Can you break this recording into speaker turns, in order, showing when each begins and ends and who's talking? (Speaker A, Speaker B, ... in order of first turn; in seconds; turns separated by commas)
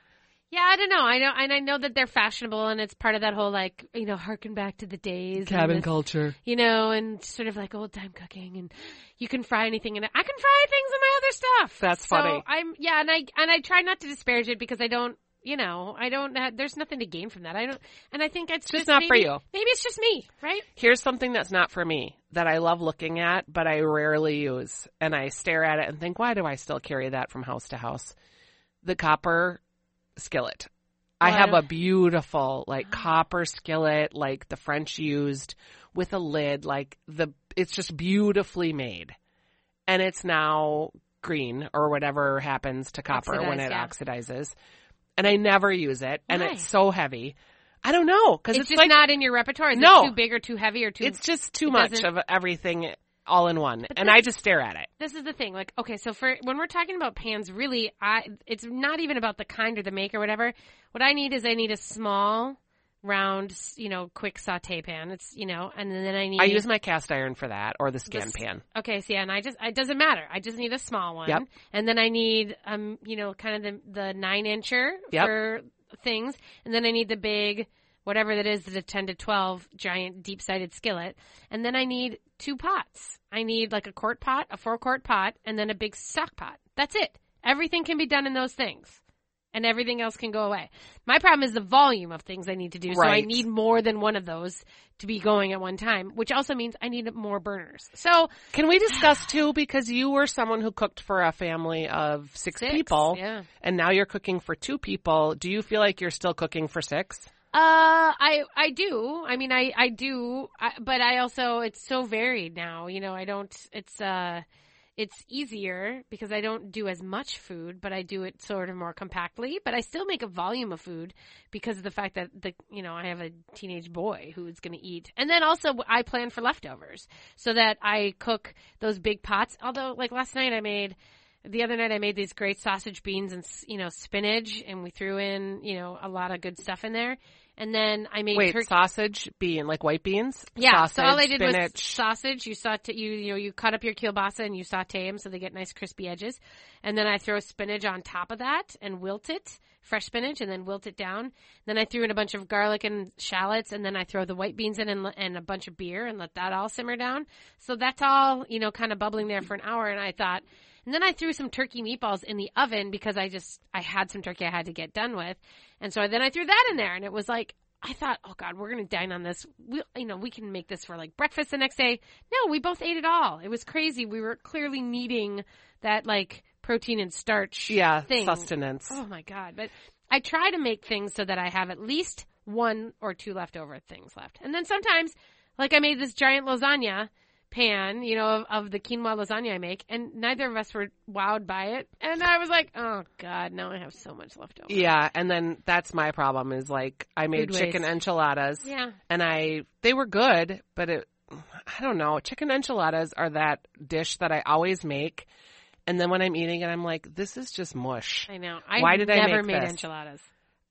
Speaker A: 0.5-5.9, Speaker B: 5.4-6.3, Speaker A: 6.5-20.7, Speaker B: 11.8-12.4, Speaker B: 18.7-19.4, Speaker B: 20.8-28.1, Speaker B: 28.8-29.6, Speaker B: 30.2-30.7, Speaker B: 31.2-39.1, Speaker A: 31.2-31.6, Speaker B: 39.9-44.5, Speaker A: 43.1-43.9, Speaker B: 45.2-49.0, Speaker A: 46.3-46.7, Speaker A: 48.5-52.1, Speaker B: 49.7-50.1, Speaker B: 51.0-54.9, Speaker A: 53.9-54.2, Speaker A: 55.0-66.6, Speaker B: 66.4-68.6, Speaker A: 68.1-89.0, Speaker A: 89.5-98.3, Speaker B: 92.9-93.5, Speaker B: 98.5-107.3, Speaker A: 98.9-99.2, Speaker A: 102.5-103.5, Speaker A: 107.5-114.4, Speaker A: 115.0-138.7, Speaker B: 138.3-142.0, Speaker A: 140.6-194.9, Speaker B: 177.7-179.0, Speaker B: 194.7-205.3, Speaker A: 197.3-197.9, Speaker A: 198.6-199.0, Speaker B: 205.9-209.8, Speaker A: 208.3-210.3